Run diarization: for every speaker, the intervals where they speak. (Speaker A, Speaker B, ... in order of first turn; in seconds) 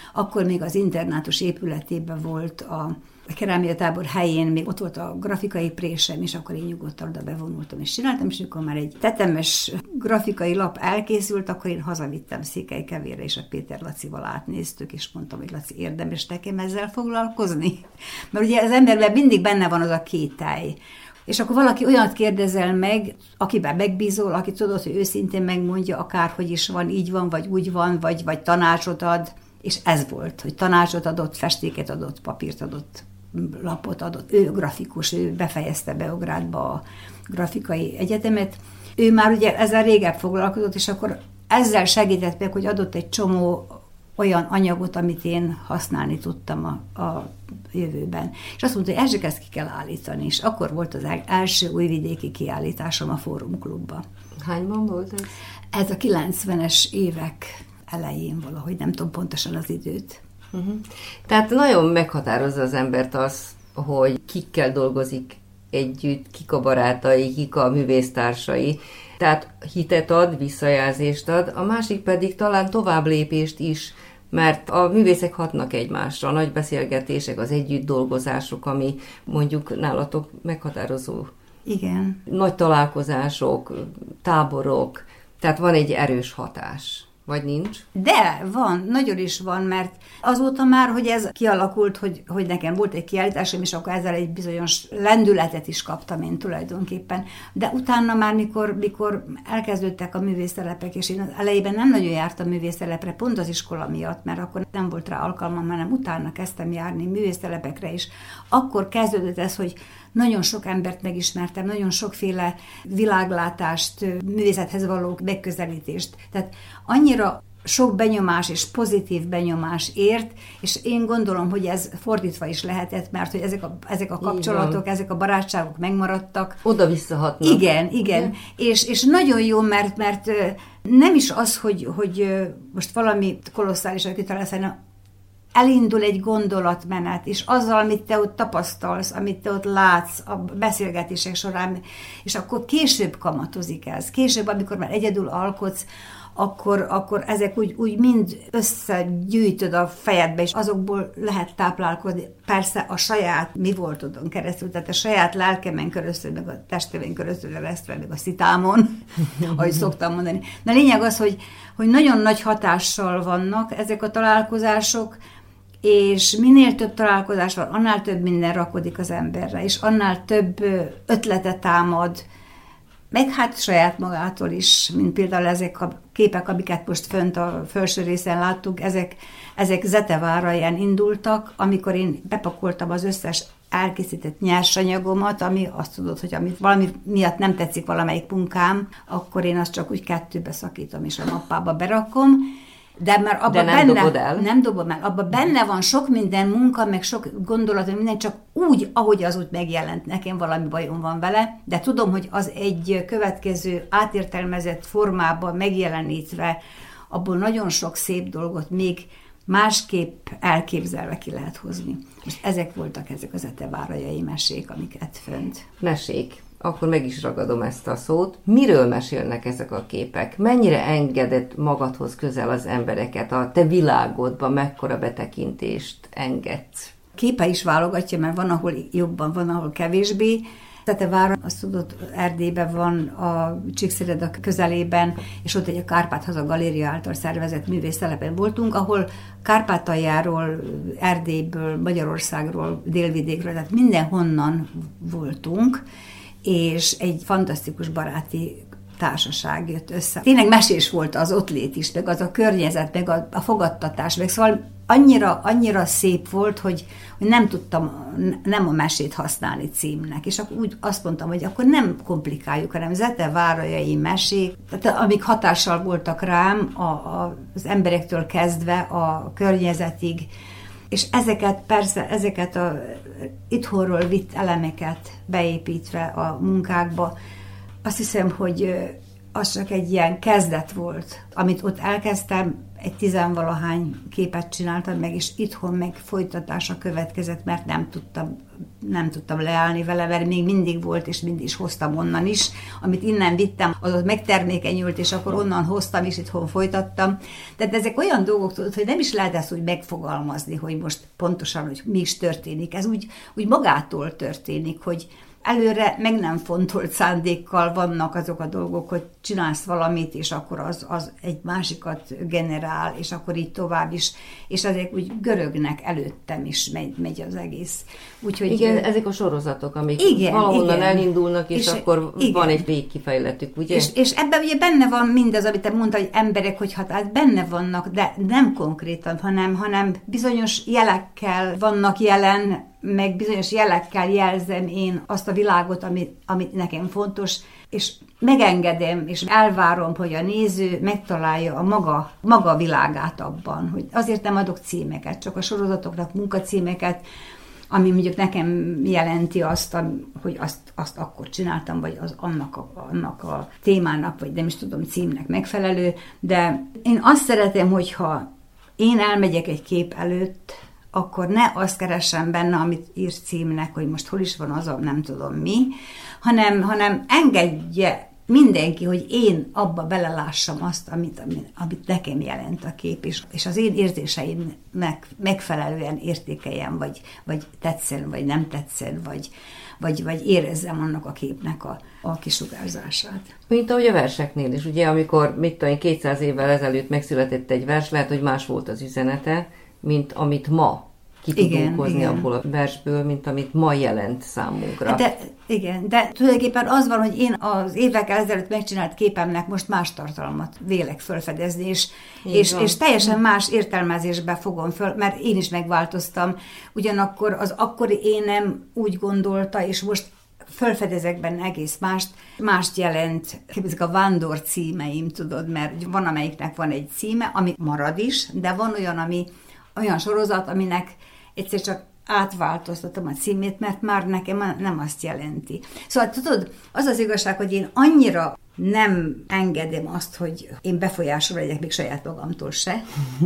Speaker A: 0.1-54.0, 55.7-60.2, 81.7-82.2, 87.9-126.6, 127.4-134.7, 135.5-165.2, 165.8-172.2, 173.1-206.6, 207.1-215.7, 227.2-245.8, 246.4-270.3, 270.9-277.1, 277.8-318.8, 320.0-322.6, 323.7-347.0, 347.7-358.3, 358.8-383.3, 391.4-392.3, 394.8-432.8
Speaker B: 54.4-55.3, 60.5-81.3, 82.3-87.8, 124.2-124.8, 126.6-128.3, 193.5-194.4, 215.8-226.9, 318.5-323.9, 383.5-395.0, 402.2-402.8